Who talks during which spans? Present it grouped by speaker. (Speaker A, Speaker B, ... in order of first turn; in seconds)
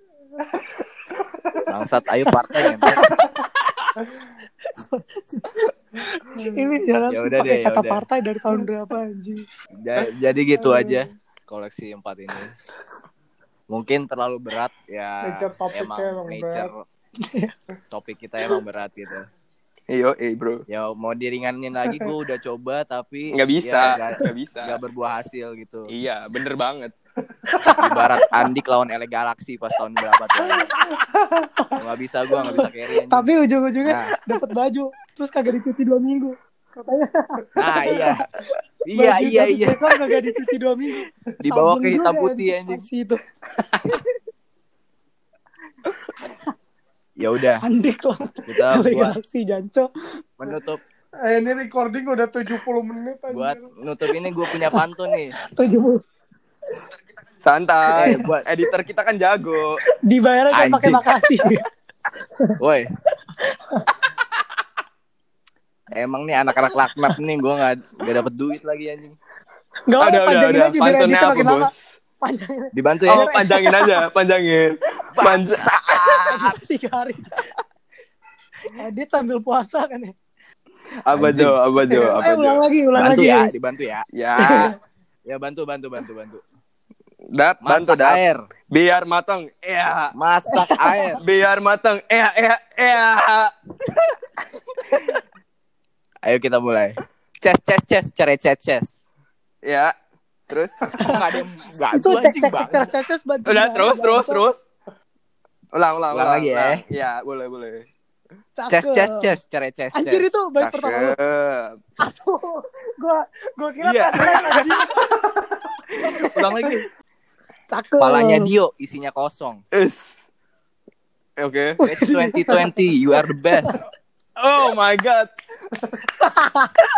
Speaker A: 0.5-1.7, 6.3-6.8, 15.2-16.7, 31.0-31.5, 51.3-53.7
Speaker B: 1.7-3.0, 7.1-8.0, 9.8-12.5, 13.7-16.8, 17.9-19.3, 20.7-25.9, 27.8-30.7, 31.8-34.1, 37.6-38.3, 38.9-40.0, 41.4-42.8, 47.2-47.6, 48.5-49.2, 50.4-50.8, 53.3-55.4, 57.9-58.5, 60.5-61.0, 62.6-62.9, 65.9-69.2, 72.7-73.3, 75.1-76.6, 81.1-82.1, 83.0-84.1, 85.3-86.4, 87.6-88.4, 90.2-91.2, 96.3-98.9, 101.0-102.9, 106.1-106.8, 108.7-110.3, 115.9-116.9, 118.0-119.6, 121.9-123.8
Speaker C: 2.9-3.2, 4.8-9.4, 17.2-17.6, 32.5-38.2, 39.0-43.2, 47.6-49.9, 54.5-54.9, 55.4-56.0, 60.0-61.6, 63.4-63.9, 69.9-71.7, 72.2-74.0, 75.9-77.5, 78.7-80.2, 81.9-83.5, 84.4-84.8, 90.6-91.2, 101.9-104.4, 108.6-109.4, 110.0-111.2, 112.0-114.9, 116.2-116.8, 117.7-118.5, 121.8-122.7, 126.2-126.7
Speaker D: 3.6-3.9, 19.9-20.6, 23.3-24.8, 25.9-26.9, 57.4-59.8, 70.0-71.7, 73.1-75.7, 81.1-82.6, 84.1-84.8, 87.3-90.1, 91.2-93.5, 99.7-99.9, 100.5-100.8, 103.5-104.6, 105.7-107.9, 110.6-111.8, 113.8-115.1, 119.7-120.3, 121.4-121.8, 124.4-125.3